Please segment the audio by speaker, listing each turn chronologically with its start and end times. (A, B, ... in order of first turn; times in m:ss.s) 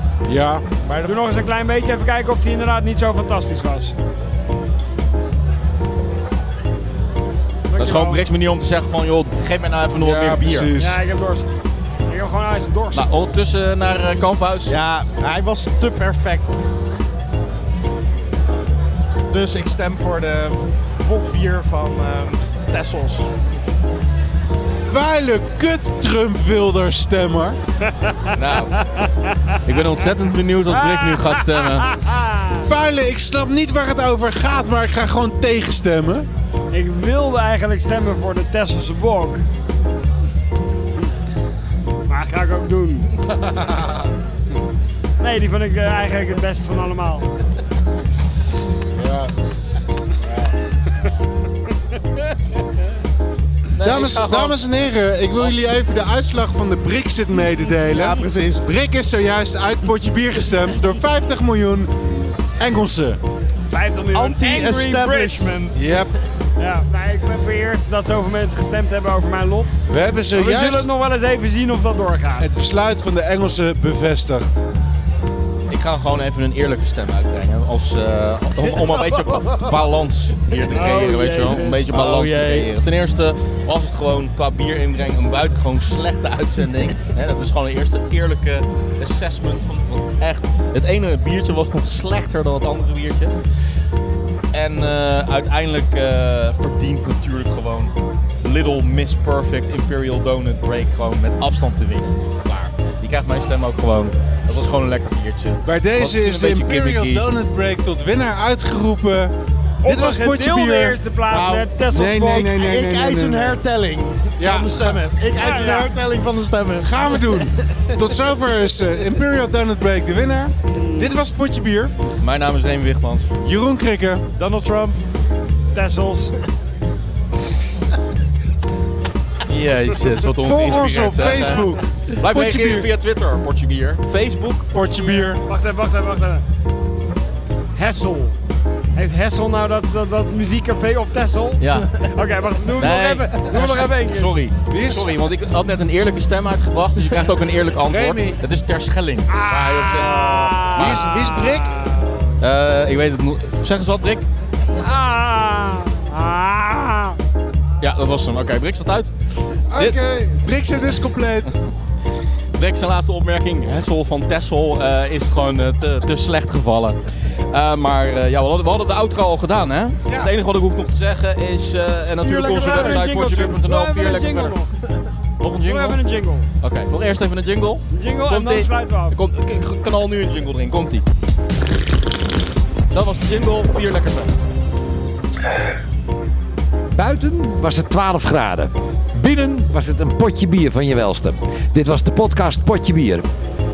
0:00.3-0:00.6 A
0:00.8-0:01.2 B
0:01.0-0:03.9 C
0:07.7-0:08.2 C
0:07.8-0:10.7 D
0:10.0-0:11.0 A
0:10.8-0:11.5 C
0:12.1-0:13.1 C
0:12.9-0:14.8 D
0:14.7-0:16.6 B
0:19.3-0:23.3 B
0:24.9-0:27.6 A
0:28.3-0:28.8 D
0:28.8-0:29.3 C
0:29.6-0:31.9 D
0:30.7-0:32.6 C
0:32.6-0:36.3 A
0:36.7-0:39.4 C
0:42.1-0:43.1 C
0:43.4-0:44.1 A
0:45.2-0:47.3 C
0:49.0-0:49.3 A
0:50.2-0:50.5 A
0:53.7-0:54.6 D
0:53.8-1:03.2 A
0:55.4-0:55.6 D
0:57.7-0:58.7 B
1:03.7-1:05.7 C
1:04.1-1:05.8 B
1:05.8-1:06.1 A
1:06.6-1:09.8 C
1:09.9-1:10.9 A
1:10.3-1:12.5 C
1:12.4-1:14.6 A
1:15.7-1:33.4 D
1:19.3-1:19.7 B
1:20.7-1:21.9 C
1:21.8-1:22.7 B
1:34.5-1:47.2 D
1:45.6-1:49.3 A
1:49.8-1:52.5 C
1:49.8-1:53.6 A
1:52.5-1:58.0 B
1:54.4-1:55.0 A
1:55.3-1:55.9 C
1:56.8-2:01.9 A
2:00.7-2:01.1 C
2:02.2-2:03.3 D
2:03.4-2:04.2 A
2:04.4-2:05.0 B
2:05.7-2:06.3 C
2:09.5-2:15.3 D
2:10.4-2:12.9 A
2:14.7-2:15.4 A
2:15.4-2:16.4 C
2:17.8-2:18.4 C
2:19.0-2:24.4 C
2:21.6-2:22.1 D
2:22.7-2:31.0 D
2:24.7-2:25.1 A
2:27.9-2:28.4 A
2:29.3-2:32.2 C
2:30.8-2:31.7 A
2:32.4-2:34.3 D
2:34.8-2:37.2 C
2:37.8-2:39.1 D
2:39.7-2:41.6 A
2:42.5-2:47.0 D
2:47.5-2:54.6 D
2:52.2-2:54.8 C
2:52.6-2:53.0 B
2:55.4-2:56.0 D
2:55.6-2:56.5 C
2:56.6-3:01.0 D
2:57.9-2:59.2 C
3:02.9-3:04.4 D
3:06.9-3:13.3 E